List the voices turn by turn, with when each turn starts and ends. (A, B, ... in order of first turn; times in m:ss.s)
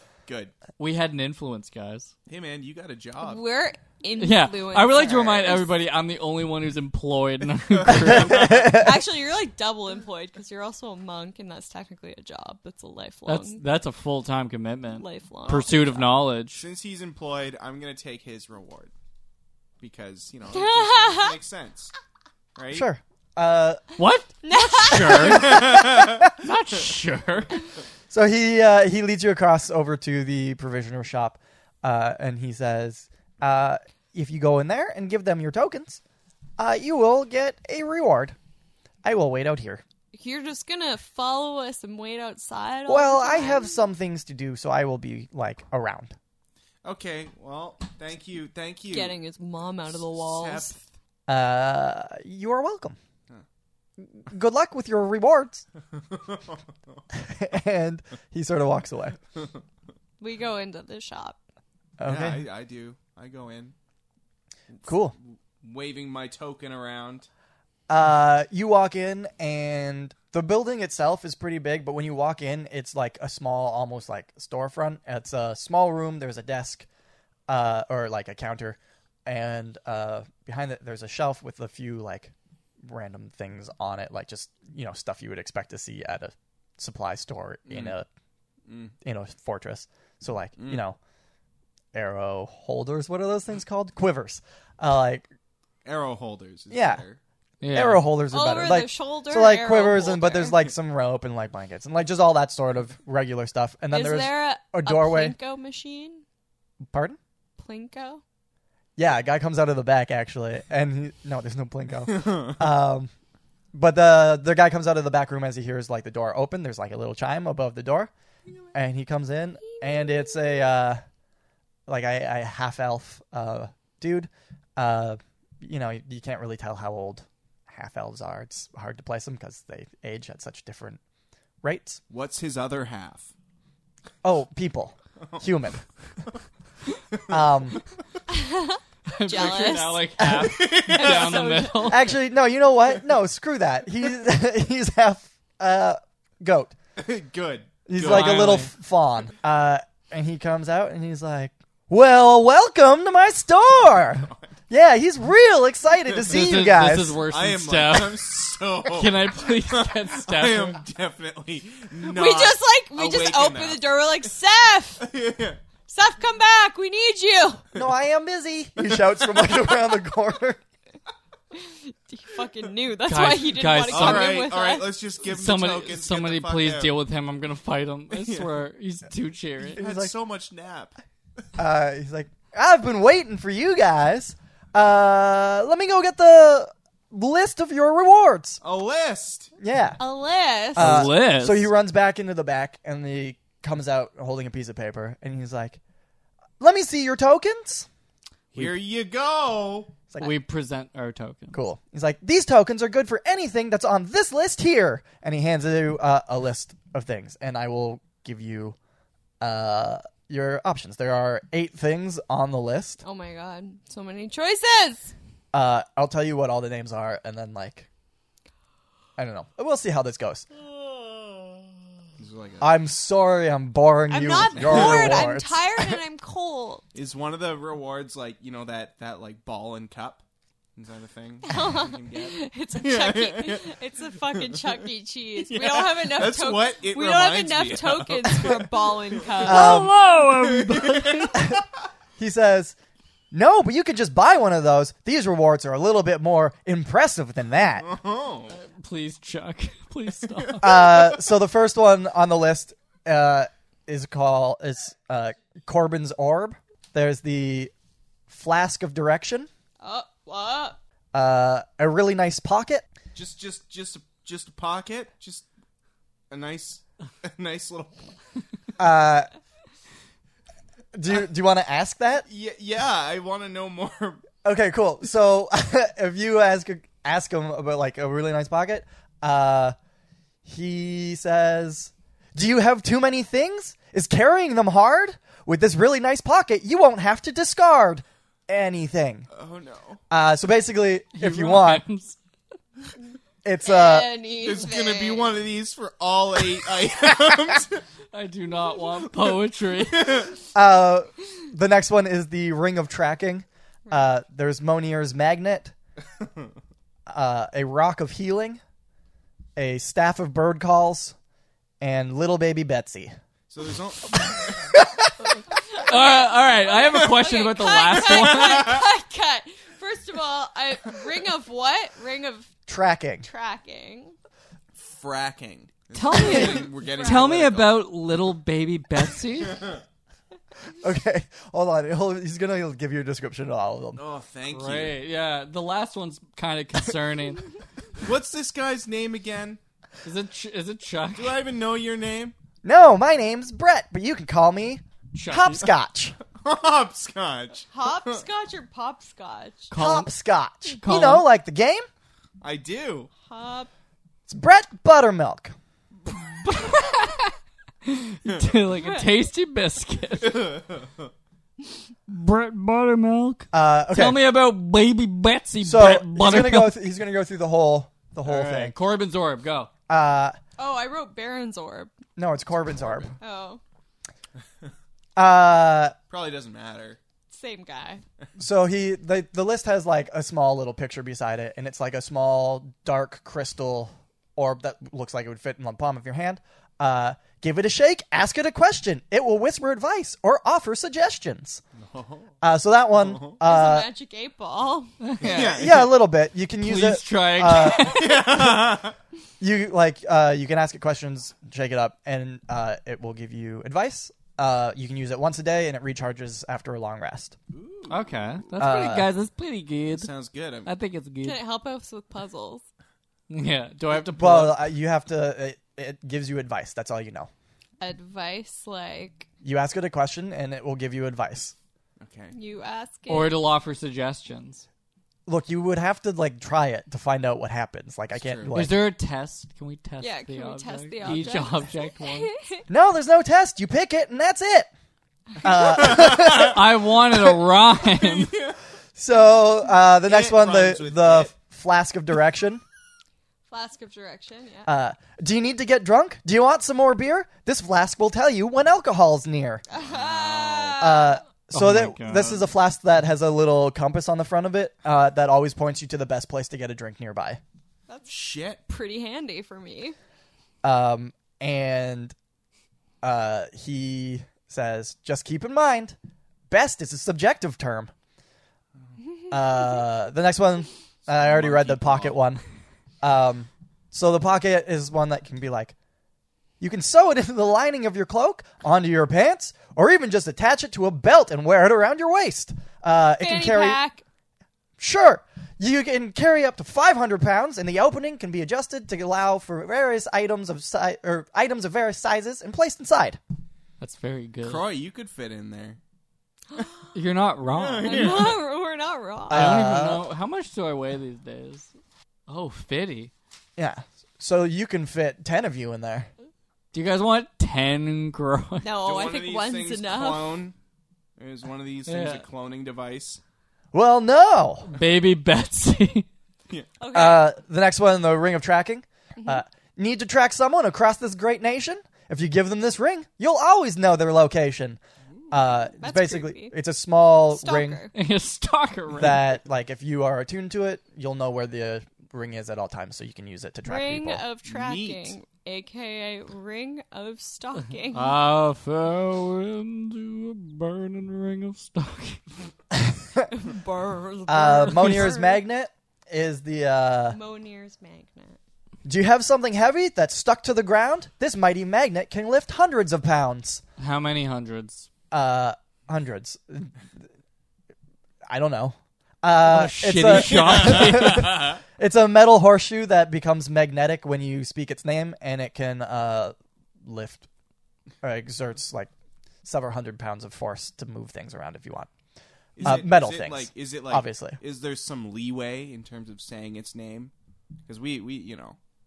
0:00.3-0:00.5 A
0:00.8-0:02.1 B
0:02.3-0:03.4 A
0:03.2-0:05.7 C
0:04.2-0:08.8 B
0:07.8-0:08.7 A
0:08.4-0:08.8 D
0:08.5-0:13.6 C
0:13.3-0:16.6 B
0:14.9-0:16.0 C
0:16.5-0:18.9 A
0:19.8-0:21.9 A
0:20.5-0:21.4 C
0:22.5-0:22.9 A
0:22.7-0:23.8 D
0:24.0-0:27.6 B
0:24.4-0:25.6 C
0:25.2-0:26.2 A
0:25.4-0:26.3 D
0:28.1-0:36.0 D
0:36.6-0:38.4 D
0:39.0-0:39.8 D
0:40.1-0:43.8 C
0:42.9-0:46.1 D
0:46.8-0:49.2 A
0:48.9-0:50.7 C
0:49.9-0:50.9 A
0:51.3-0:53.0 D
0:54.1-0:55.6 D
0:55.9-0:56.6 A
0:57.1-0:59.2 D
1:00.2-1:01.4 C
1:02.0-1:02.4 D
1:02.0-1:03.7 A
1:04.8-1:05.1 D
1:04.8-1:07.3 A
1:07.9-1:16.8 D
1:17.5-1:22.3 D
1:22.8-1:28.1 D
1:27.7-1:27.9 A
1:28.7-1:28.9 A
1:29.0-1:31.0 D
1:30.6-1:30.8 A
1:31.9-1:35.3 D
1:35.8-1:37.2 A
1:36.7-1:37.0 D
1:37.6-1:38.0 B
1:37.7-1:45.4 D
1:38.3-1:40.6 C
1:43.9-1:46.2 C
1:46.9-1:47.2 D
1:47.6-1:48.2 C
1:49.0-1:53.1 D
1:52.1-1:52.6 A
1:53.7-1:58.1 D
1:58.7-2:01.0 D
2:01.9-2:11.0 D
2:11.6-2:12.0 D
2:12.1-2:13.3 A
2:14.2-2:15.8 D
2:17.1-2:17.4 A
2:17.3-2:17.8 D
2:18.3-2:20.1 C
2:19.1-2:22.1 B
2:20.2-2:20.6 D
2:20.4-2:21.5 A
2:20.9-2:22.0 C
2:21.8-2:26.7 D
2:27.0-2:28.5 A
2:27.8-2:37.2 D
2:28.0-2:28.7 B
2:33.9-2:34.4 A
2:36.3-2:40.8 B
2:37.2-2:43.8 A
2:42.0-2:45.1 C
2:45.0-2:45.6 A
2:45.9-2:47.6 C
2:47.7-2:50.6 D
2:49.0-2:50.0 A
2:51.5-2:54.9 C
2:53.0-2:54.4 B
2:53.9-2:57.0 A
2:55.2-2:59.8 B
2:58.1-2:58.5 A
2:59.7-3:00.9 A
2:59.8-3:00.1 D
3:01.6-3:08.6 D
3:08.6-3:09.5 A
3:09.6-3:10.0 D
3:10.0-3:11.0 C
3:10.7-3:11.7 B
3:10.7-3:15.8 D
3:16.6-3:17.9 D
3:18.5-3:19.9 A
3:20.2-3:21.6 B
3:21.5-3:28.8 D
3:29.4-3:33.0 D
3:33.0-3:35.1 C
3:35.5-3:37.9 D
3:39.2-3:40.4 D
3:42.2-3:42.8 A
3:42.6-3:46.0 D
3:44.1-3:46.8 C
3:44.5-3:45.2 A
3:46.9-3:50.2 A
3:50.8-4:01.6 A
3:51.4-3:59.9 C
3:59.4-4:01.5 B
3:59.4-3:59.9 D
4:02.2-4:02.8 D
4:03.3-4:07.9 D
4:07.8-4:08.6 A
4:08.5-4:11.1 B
4:10.4-4:10.8 A
4:10.6-4:17.7 D
4:18.3-4:19.5 D
4:19.8-4:20.8 C
4:21.1-4:22.8 D
4:23.1-4:25.5 A
4:26.3-4:28.1 A
4:28.8-4:29.3 D
4:30.9-4:32.3 D
4:32.3-4:34.2 A
4:34.4-4:39.7 D
4:40.4-4:49.3 D
4:49.3-4:50.0 A
4:50.1-4:51.8 D
4:51.1-4:52.2 B
4:53.4-4:54.1 D
4:53.6-4:55.3 C
4:54.4-4:57.8 A
4:58.1-5:00.3 B
4:59.9-5:00.3 A
5:00.5-5:05.7 D
5:06.2-5:06.4 A
5:07.1-5:08.6 D
5:09.6-5:11.1 D
5:11.8-5:13.1 D
5:13.5-5:14.8 A
5:14.3-5:14.9 D
5:15.7-5:18.8 B
5:15.7-5:22.5 C
5:18.0-5:18.8 A
5:22.7-5:23.2 D
5:23.2-5:24.1 C
5:24.7-5:27.8 A
5:25.9-5:29.7 B
5:26.2-5:27.4 C
5:29.4-5:29.8 A
5:30.8-5:34.0 D
5:34.0-5:35.0 A
5:34.5-5:37.5 B
5:38.0-5:39.6 A
5:40.0-5:41.4 B
5:41.1-5:42.3 A
5:42.6-5:46.2 D
5:45.1-5:45.7 B
5:46.3-5:48.2 A
5:47.7-5:49.7 C
5:49.7-5:50.1 B
5:49.7-5:51.9 D
5:50.7-5:51.2 B
5:52.4-5:53.1 A
5:53.3-5:53.7 C
5:54.3-5:55.5 D
5:56.4-5:57.2 B
5:56.5-5:57.1 C
5:57.8-6:00.6 B
5:58.2-5:58.5 A
5:58.7-5:59.1 C
6:00.2-6:01.1 A
6:02.1-6:06.8 B
6:03.5-6:04.2 D
6:05.6-6:08.7 D
6:08.2-6:09.7 B
6:09.9-6:10.4 D
6:10.6-6:11.9 C
6:12.2-6:13.1 D
6:13.2-6:13.6 C
6:15.2-6:16.0 D
6:16.1-6:17.0 A
6:17.3-6:18.0 C
6:18.4-6:31.6 D
6:31.8-6:32.3 A
6:32.4-6:33.9 D
6:33.0-6:33.4 A
6:33.4-6:34.9 C
6:35.0-6:35.7 B
6:35.2-6:35.9 A
6:35.5-6:38.2 D
6:36.6-6:38.4 B
6:37.6-6:39.0 A
6:39.4-6:47.3 D
6:47.5-6:48.3 A
6:47.9-6:50.1 B
6:48.6-6:49.1 D
6:49.9-6:50.7 A
6:50.6-6:51.4 B
6:51.2-6:52.6 C
6:53.3-6:54.6 B
6:53.9-6:57.3 D
6:57.8-6:59.3 C
6:59.4-7:01.5 D
7:02.0-7:02.3 A
7:02.3-7:03.4 C
7:03.1-7:04.6 B
7:05.3-7:08.8 D
7:08.1-7:08.6 A
7:08.5-7:12.3 B
7:10.0-7:12.6 C
7:12.7-7:14.7 D
7:15.4-7:16.6 D
7:15.6-7:16.5 A
7:15.9-7:18.3 B
7:17.8-7:18.6 A
7:19.0-7:22.6 D
7:20.0-7:21.3 A
7:23.5-7:24.7 C
7:24.6-7:29.6 D
7:29.7-7:31.2 C
7:29.7-7:30.9 A
7:30.8-7:37.4 D
7:31.5-7:32.5 B
7:37.9-7:38.1 C
7:38.1-7:38.6 A
7:38.7-7:40.0 C
7:40.6-7:42.1 D
7:43.0-7:46.0 D
7:46.5-7:47.9 D
7:49.3-7:52.4 D
7:51.0-7:52.3 A
7:53.0-7:55.7 D
7:56.6-8:03.8 D
8:03.2-8:04.0 C
8:04.8-8:13.2 D
8:13.8-8:14.6 B
8:14.4-8:15.8 A
8:16.9-8:18.3 B
8:17.5-8:18.4 A
8:17.8-8:19.5 C
8:19.3-8:20.0 D
8:19.3-8:21.7 B
8:22.3-8:23.1 B
8:23.6-8:26.1 D
8:26.7-8:28.7 B
8:28.6-8:30.4 C
8:28.8-8:30.5 A
8:31.2-8:33.2 A
8:31.8-8:32.2 B
8:33.7-8:34.7 D
8:34.6-8:36.1 B
8:36.8-8:37.3 C
8:36.9-8:44.8 D
8:45.3-8:47.8 D
8:45.8-8:46.5 C
8:47.3-8:47.9 C
8:47.9-8:49.4 B
8:49.0-8:54.2 D
8:53.6-8:58.1 C
8:54.4-8:55.2 A
8:57.9-9:02.2 B
9:02.7-9:03.3 D
9:03.3-9:05.4 C
9:04.3-9:07.2 D
9:07.1-9:08.4 C
9:08.8-9:13.6 D
9:13.8-9:14.9 B
9:15.1-9:16.8 D
9:18.3-9:27.2 D
9:19.4-9:21.5 B
9:20.1-9:21.5 A
9:28.0-9:28.9 D
9:29.4-9:31.9 D
9:32.6-9:37.1 A
9:32.6-9:34.4 D
9:37.7-9:38.6 A